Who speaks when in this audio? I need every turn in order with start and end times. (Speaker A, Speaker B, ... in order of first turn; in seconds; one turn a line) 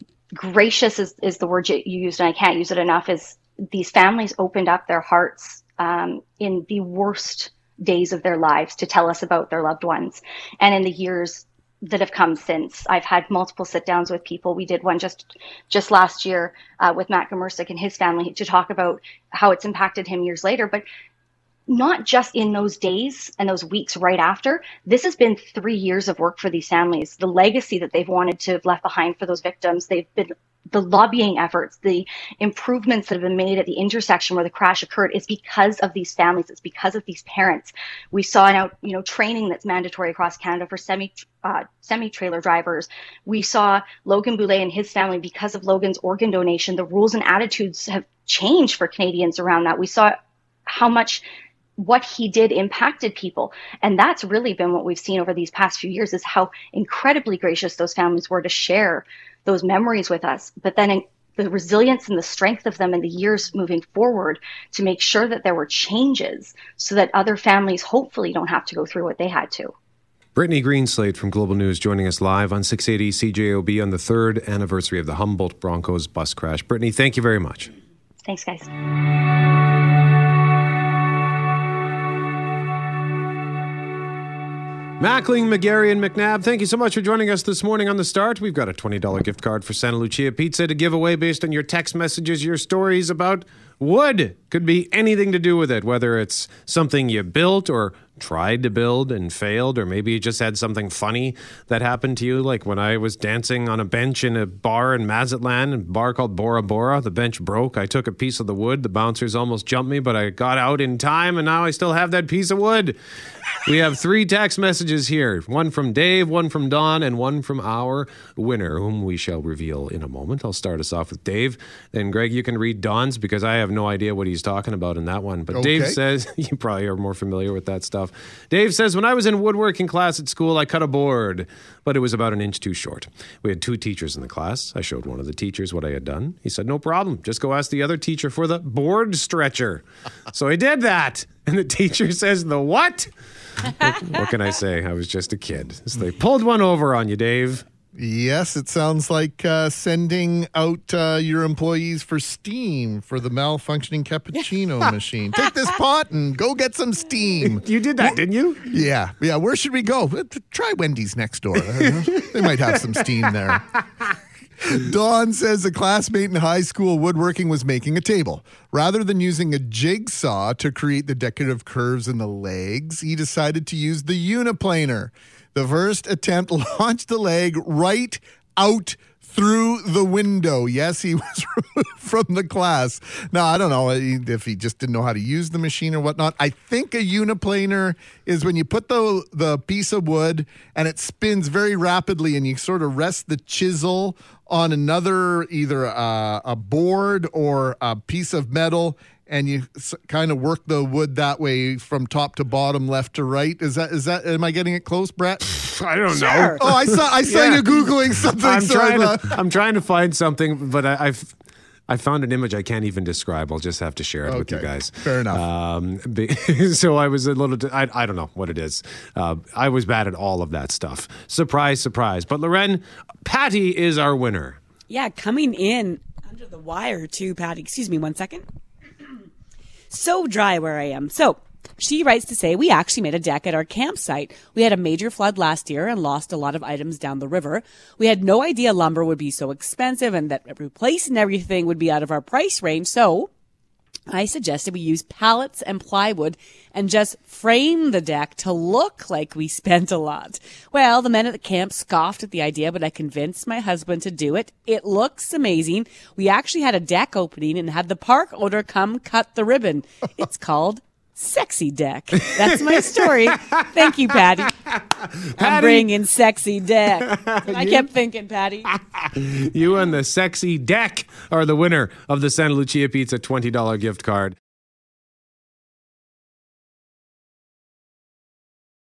Speaker A: 0.3-20.9
Speaker A: 21.7-51.3
Speaker A: 51.8-69.7
Speaker B: 70.3-77.7
Speaker A: 78.3-78.7
Speaker B: 85.0-113.0
Speaker B: 113.7-143.1
Speaker C: 125.5-126.0
Speaker B: 143.6-147.7
Speaker C: 147.9-163.6
Speaker B: 157.4-158.7
Speaker B: 161.8-163.4
Speaker C: 164.7-205.4
Speaker B: 205.5-207.7
Speaker D: 206.2-206.6
Speaker C: 206.6-209.4
Speaker B: 208.3-211.3
Speaker B: 211.9-224.6
Speaker C: 214.3-215.4
Speaker D: 224.9-228.4
Speaker D: 229.9-243.3
Speaker D: 244.1-264.5
Speaker B: 263.3-263.6
Speaker B: 264.7-265.9
Speaker D: 265.4-268.7
Speaker B: 267.1-267.9
Speaker B: 268.7-274.4